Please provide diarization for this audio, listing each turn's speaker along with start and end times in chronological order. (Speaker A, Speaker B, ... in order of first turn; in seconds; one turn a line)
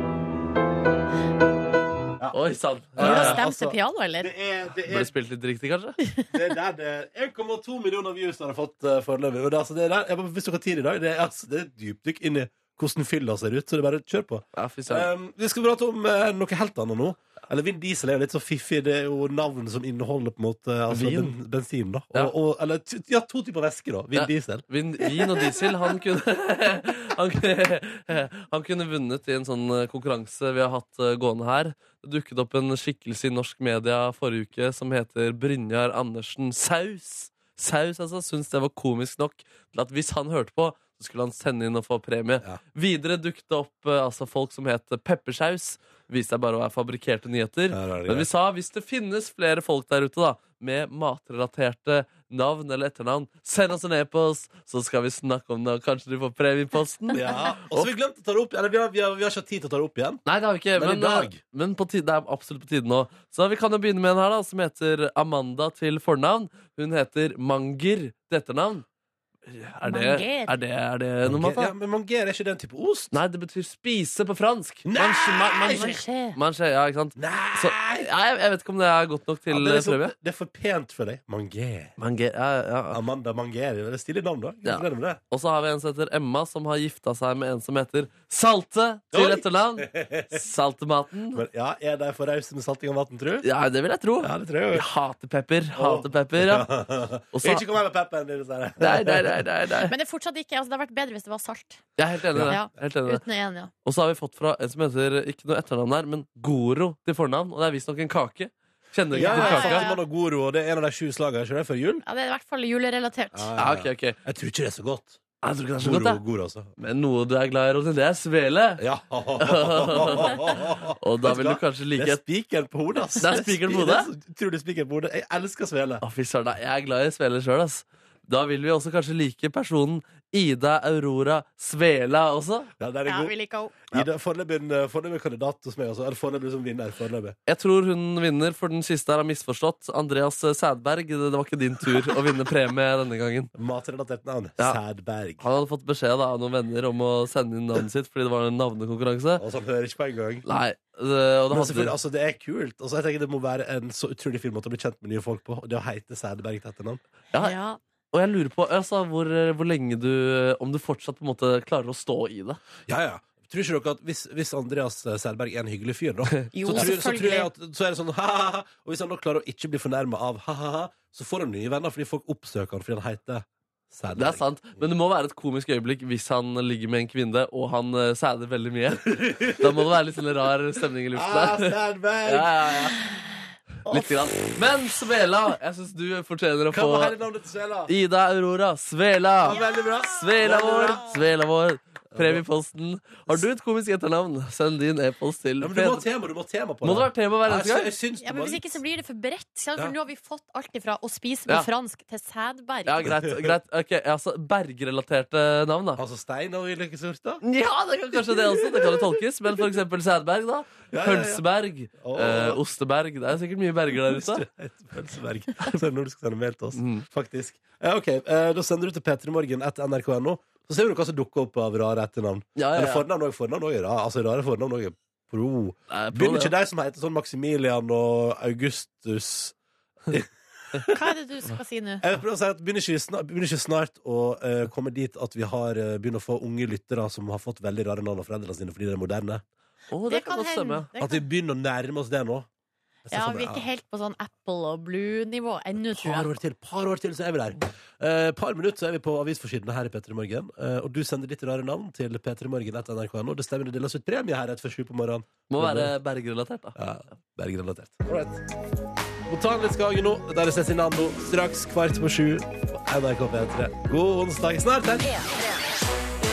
Speaker A: 2.3-3.4
Speaker B: 2.9-5.1
Speaker C: 3.0-4.3
Speaker A: 4.8-6.0
Speaker B: 6.3-25.9
Speaker A: 14.5-15.1
Speaker A: 20.9-21.3
Speaker A: 24.1-57.9
Speaker B: 47.7-48.3
Speaker B: 57.1-60.2
Speaker A: 60.2-68.8
Speaker B: 60.8-61.4
Speaker A: 69.5-71.7
Speaker C: 69.8-70.6
Speaker B: 71.2-73.2
Speaker A: 73.1-80.1
Speaker B: 74.8-76.0
Speaker C: 75.7-76.4
Speaker B: 77.2-78.1
Speaker B: 79.5-81.9
Speaker A: 82.0-83.0
Speaker B: 82.9-85.2
Speaker A: 84.6-91.4
Speaker B: 89.1-90.4
Speaker B: 91.3-93.5
Speaker A: 93.4-96.7
Speaker B: 94.2-94.8
Speaker B: 95.7-99.4
Speaker A: 97.3-97.6
Speaker A: 98.8-99.9
Speaker C: 99.9-101.8
Speaker A: 102.0-103.2
Speaker B: 102.3-102.6
Speaker C: 102.5-103.7
Speaker A: 103.8-109.9
Speaker C: 109.1-110.0
Speaker B: 109.1-112.0
Speaker C: 112.0-113.5
Speaker B: 113.3-115.2
Speaker A: 113.6-114.2
Speaker A: 115.4-116.2
Speaker B: 115.8-116.7
Speaker A: 116.8-118.8
Speaker B: 118.8-126.0
Speaker A: 119.4-122.2
Speaker A: 123.2-124.1
Speaker A: 126.0-132.7
Speaker B: 132.8-133.3
Speaker C: 133.1-133.8
Speaker B: 133.9-137.4
Speaker A: 137.5-143.5
Speaker B: 143.6-145.4
Speaker A: 145.4-149.4
Speaker B: 149.4-150.4
Speaker A: 150.4-151.9
Speaker B: 151.5-157.0
Speaker C: 157.3-157.8
Speaker A: 158.1-162.6
Speaker B: 162.9-174.4
Speaker C: 166.5-167.5
Speaker A: 174.2-181.7
Speaker B: 179.1-179.9
Speaker B: 181.1-182.9
Speaker A: 182.2-183.0
Speaker A: 183.9-187.2
Speaker B: 186.7-187.9
Speaker A: 187.9-189.6
Speaker B: 189.4-191.1
Speaker C: 189.5-189.8
Speaker A: 190.1-196.1
Speaker B: 192.1-192.4
Speaker B: 195.6-198.8
Speaker A: 196.8-197.9
Speaker C: 198.2-203.1
Speaker A: 202.8-206.0
Speaker B: 203.2-203.5
Speaker B: 206.0-207.4
Speaker A: 207.4-214.4
Speaker B: 208.1-209.2
Speaker B: 210.9-211.4
Speaker B: 212.0-212.6
Speaker B: 214.0-229.6
Speaker A: 216.7-217.1
Speaker A: 222.6-223.1
Speaker A: 225.9-226.5
Speaker B: 230.1-231.0
Speaker C: 230.9-232.0
Speaker B: 232.0-239.4
Speaker A: 239.9-240.9
Speaker C: 240.1-241.2
Speaker B: 241.0-242.5
Speaker B: 243.1-243.7
Speaker C: 243.1-246.3
Speaker B: 245.8-255.9
Speaker A: 255.5-256.8
Speaker B: 256.8-258.4
Speaker B: 259.3-265.1